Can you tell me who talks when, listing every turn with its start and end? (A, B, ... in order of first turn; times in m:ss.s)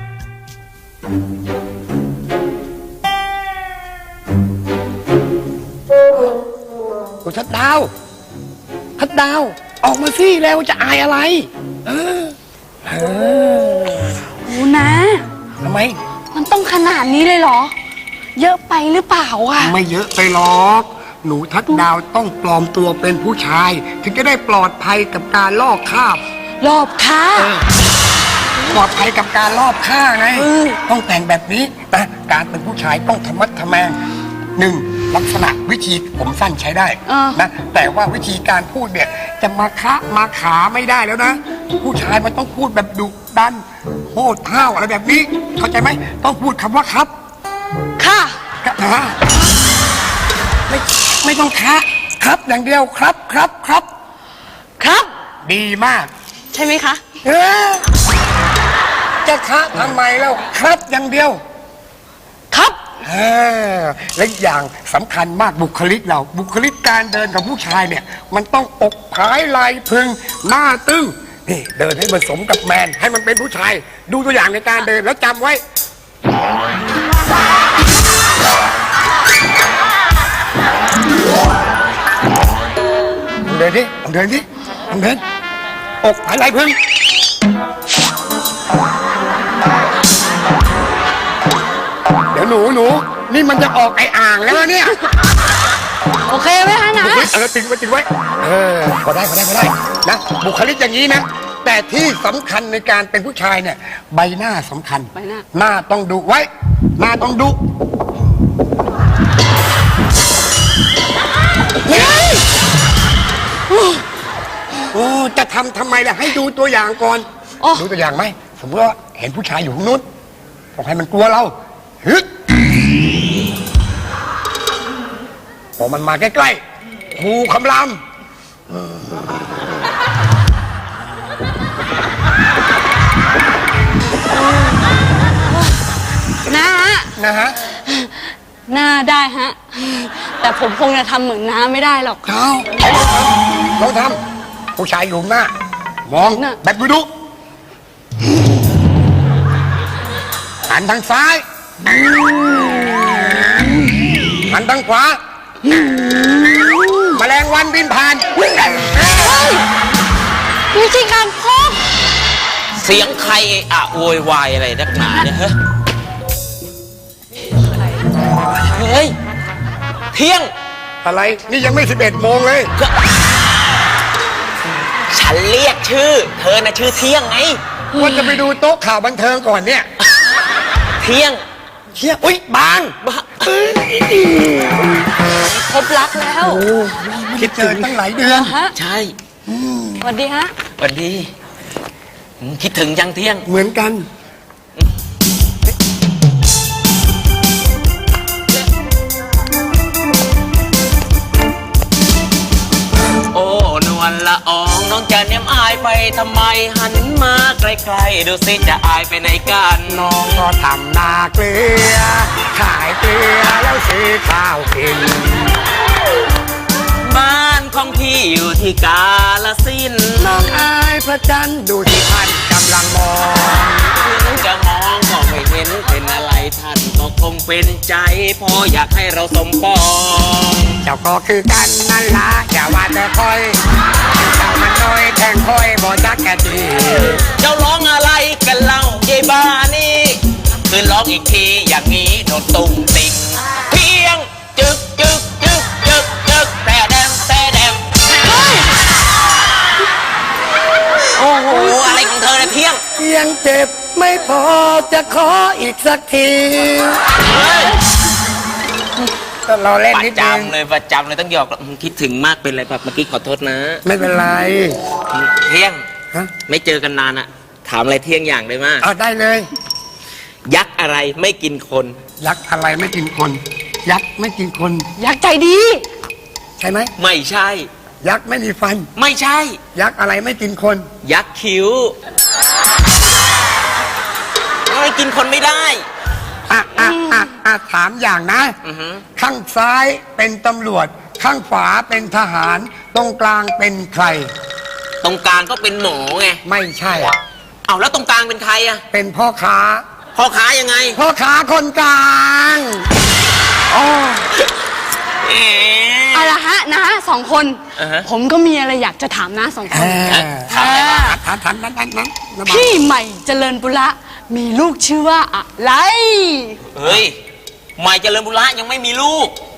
0:07.2-0:07.9 A
0:09.0-0:12.3 A
0:12.8-0:14.0 A
0:14.4-0:15.2 B
0:15.6-0:16.0 A
0:16.3-0:17.7 B
0:18.4-0:19.7 B
0:19.6-0:26.2 A
0:26.6-0:27.5 B
0:28.7-0:34.0 A
0:30.4-0:30.8 B
0:34.6-0:47.1 A
0:37.1-0:37.4 B
0:48.0-0:48.3 B
0:48.6-0:49.2 A
0:50.7-0:53.9 A
0:54.8-0:55.1 B
0:55.4-0:56.1 A
0:56.5-0:57.0 B
0:57.2-0:57.8 A
0:59.2-1:01.4 A
1:02.5-1:02.8 B
1:03.0-1:15.6 A
1:23.5-1:25.2 A
1:26.0-1:26.8 A
1:32.3-1:35.0 A
1:36.2-1:37.3 B
1:37.0-1:47.6 A
1:45.2-1:45.4 B
1:51.9-1:52.4 B
1:54.9-2:00.0 A
1:57.6-1:57.9 B
2:00.8-2:02.3 A
2:05.8-2:06.6 A
2:07.1-2:08.0 A
2:16.5-2:17.1 B
2:17.2-2:17.6 A
2:17.9-2:22.2 B
2:22.2-2:24.2 A
2:24.8-2:25.5 A
2:26.0-2:27.1 A
2:30.7-2:31.4 A
2:34.5-2:35.2 A
2:37.1-2:38.2 A
2:39.0-2:39.2 A
2:39.2-2:39.6 B
2:40.7-2:41.8 B
2:42.8-2:45.6 C
2:48.7-2:49.1 C
2:50.1-2:50.5 C
2:51.0-2:52.7 A
2:55.1-2:57.6 C
2:57.9-2:59.9 A
3:01.0-3:01.4 C
3:01.9-3:02.9 A
3:03.0-3:03.9 C
3:05.6-3:06.6 B
3:06.4-3:08.6 A
3:07.5-3:08.7 B
3:08.7-3:09.1 C
3:09.5-3:10.1 A
3:10.0-3:10.5 B
3:10.8-3:11.3 C
3:12.4-3:13.4 C
3:13.4-3:14.0 A
3:23.3-3:30.1 C
3:29.8-3:35.5 A
3:37.0-3:40.3 C
3:40.2-3:43.9 A
3:44.0-3:50.8 C
3:50.8-3:53.6 A
3:54.1-3:57.2 A
3:57.4-4:07.8 C
4:08.2-4:08.7 B
4:11.2-4:12.8 C
4:11.5-4:12.0 B
4:13.0-4:17.0 A
4:17.3-4:17.7 C
4:19.4-4:20.5 A
4:19.9-4:23.8 C
4:23.8-4:24.8 A
4:25.1-4:25.8 C
4:26.5-4:28.8 C
4:28.8-4:29.5 A
4:30.4-4:32.0 C
4:32.2-4:34.9 A
4:35.0-4:35.8 B
4:36.6-4:36.9 A
4:37.0-4:37.7 C
4:38.0-4:38.9 A
4:39.0-4:39.6 C
4:39.7-4:40.8 A
4:41.0-4:41.9 C
4:44.7-4:45.8 C
4:46.5-4:48.6 A
4:48.6-4:49.0 C
4:49.2-4:54.3 A
4:55.0-4:56.4 C
4:56.4-4:57.1 A
4:57.6-4:58.8 C
4:58.9-4:59.8 A
5:00.1-5:01.0 C
5:00.9-5:02.8 A
5:05.2-5:06.3 C
5:06.1-5:11.2 B
5:07.8-5:08.0 C
5:09.7-5:12.8 A
5:10.1-5:11.0 C
5:12.4-5:16.6 B
5:16.7-5:17.2 C
5:17.8-5:19.3 C